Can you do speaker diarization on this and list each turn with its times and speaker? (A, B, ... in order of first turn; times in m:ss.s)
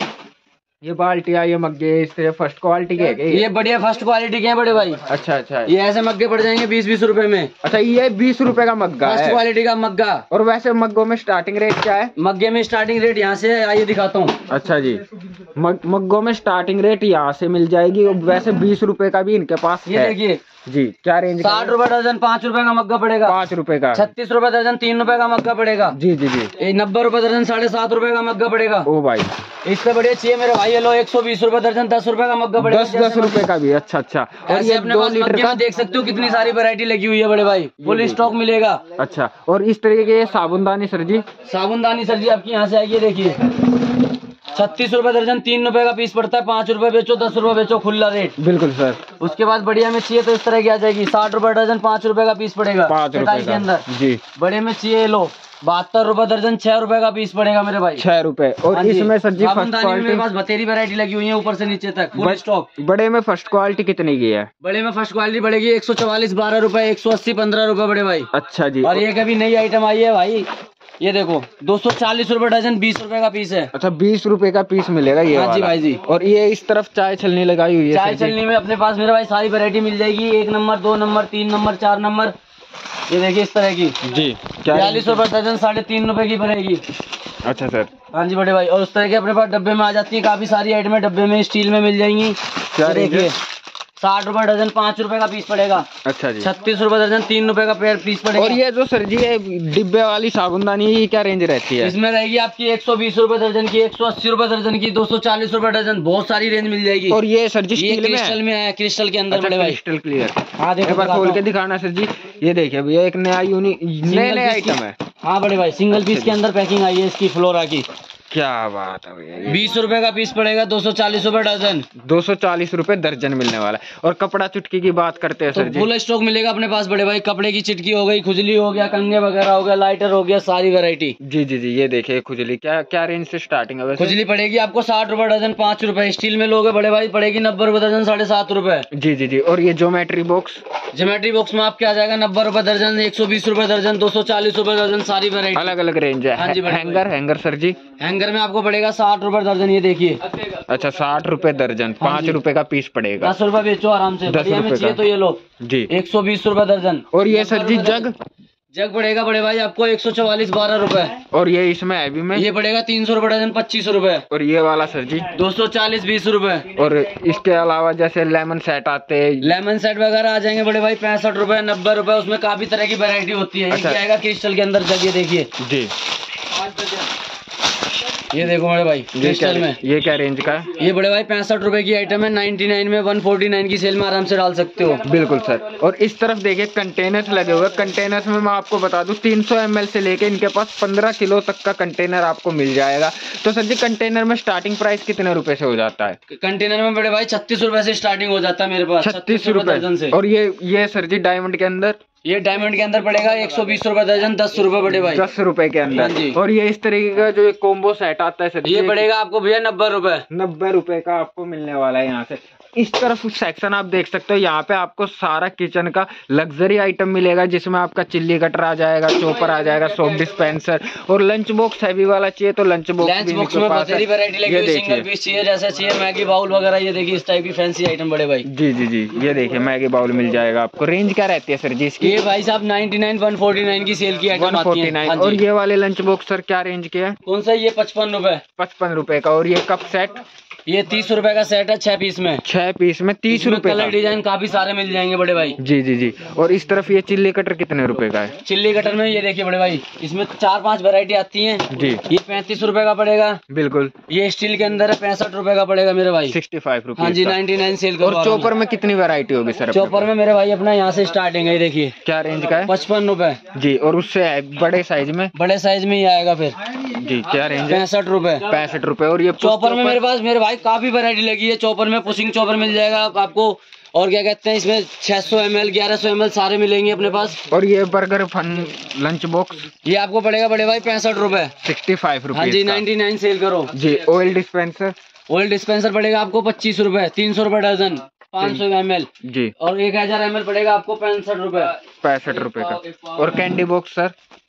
0:00.8-0:03.5 A
0:03.3-0:05.0 B
0:05.1-0:05.7 A
0:05.7-0:07.5 B
0:07.6-0:09.4 A
0:09.0-0:10.2 B
0:10.3-0:12.1 A
0:12.2-0:14.4 B
0:14.5-0:15.0 A
0:15.6-0:20.2 A
0:19.9-0:20.4 B
0:20.7-0:21.8 A
0:21.4-0:23.4 B
0:23.2-0:24.1 A
0:23.9-0:26.0 B
0:25.9-0:26.5 A
0:26.6-0:28.9 B
0:28.8-0:29.3 A
0:29.6-0:33.5 B
0:32.6-0:35.6 A
0:34.5-0:38.8 B
0:37.8-0:38.3 A
0:39.0-0:41.2 A
0:41.4-0:43.5 B
0:44.5-0:48.4 B
0:48.4-0:49.0 A
0:49.2-0:58.0 B
0:52.9-0:54.2 A
0:58.0-1:00.2 A
0:58.7-1:02.7 B
1:02.2-1:04.5 A
1:04.6-1:08.3 B
1:08.3-1:09.1 A
1:08.8-1:10.5 B
1:11.0-1:13.7 B
1:13.7-1:18.4 A
1:15.3-1:16.0 B
1:17.9-1:22.3 B
1:23.1-1:24.0 B
1:24.0-1:25.3 A
1:24.7-1:26.8 B
1:27.4-1:27.9 A
1:28.1-1:33.4 B
1:32.7-1:33.3 A
1:34.0-1:35.9 B
1:36.0-1:36.5 A
1:36.4-1:38.6 B
1:38.3-1:42.0 A
1:41.8-1:47.2 B
1:47.1-1:48.4 A
1:47.8-1:49.8 B
1:49.3-1:55.0 A
1:50.6-1:51.4 B
1:54.0-1:57.9 B
1:55.9-1:56.4 A
1:58.3-1:59.7 A
1:59.5-2:01.9 B
2:02.0-2:05.9 A
2:05.5-2:11.2 B
2:11.2-2:14.2 A
2:14.0-2:18.9 B
2:18.9-2:20.6 A
2:20.9-2:25.8 B
2:25.5-2:27.8 A
2:26.4-2:27.0 B
2:28.0-2:30.2 B
2:30.6-2:33.3 A
2:32.0-2:32.4 B
2:33.2-2:38.1 B
2:34.3-2:35.0 A
2:35.6-2:35.9 A
2:37.1-2:38.2 A
2:38.7-2:41.2 B
2:41.3-2:42.5 A
2:42.3-2:44.2 B
2:44.3-2:45.4 A
2:45.3-2:46.7 B
2:46.8-2:49.5 A
2:49.4-2:55.5 B
2:53.7-2:54.0 A
2:55.6-2:55.9 A
2:58.3-2:59.8 B
2:59.1-3:00.7 A
3:00.7-3:05.0 B
3:05.0-3:16.2 A
3:16.3-3:20.2 B
3:19.0-3:22.0 A
3:22.2-3:25.2 B
3:24.9-3:29.1 A
3:25.9-3:26.4 B
3:28.6-3:30.2 B
3:30.3-3:45.1 A
3:43.0-3:48.5 B
3:48.4-3:52.2 A
3:52.0-3:55.4 B
3:54.3-3:57.2 A
3:57.2-3:58.4 B
3:58.6-4:00.2 A
4:00.7-4:02.4 B
4:02.4-4:04.0 A
4:03.3-4:05.6 B
4:05.6-4:08.4 A
4:08.4-4:13.4 B
4:11.7-4:12.0 A
4:13.5-4:13.9 A
4:14.1-4:16.4 B
4:16.3-4:17.4 A
4:17.0-4:18.5 B
4:18.0-4:20.1 A
4:19.7-4:22.0 B
4:22.0-4:22.7 A
4:22.6-4:23.4 B
4:23.5-4:25.3 A
4:25.4-4:26.6 B
4:26.9-4:27.9 A
4:27.6-4:28.5 B
4:28.5-4:30.0 A
4:29.4-4:37.4 B
4:37.5-4:39.7 A
4:39.8-4:41.6 B
4:41.6-4:42.8 A
4:42.3-4:43.7 B
4:43.7-4:44.9 A
4:45.3-4:51.8 B
4:49.2-4:49.5 A
4:52.0-4:54.1 A
4:52.8-4:53.4 B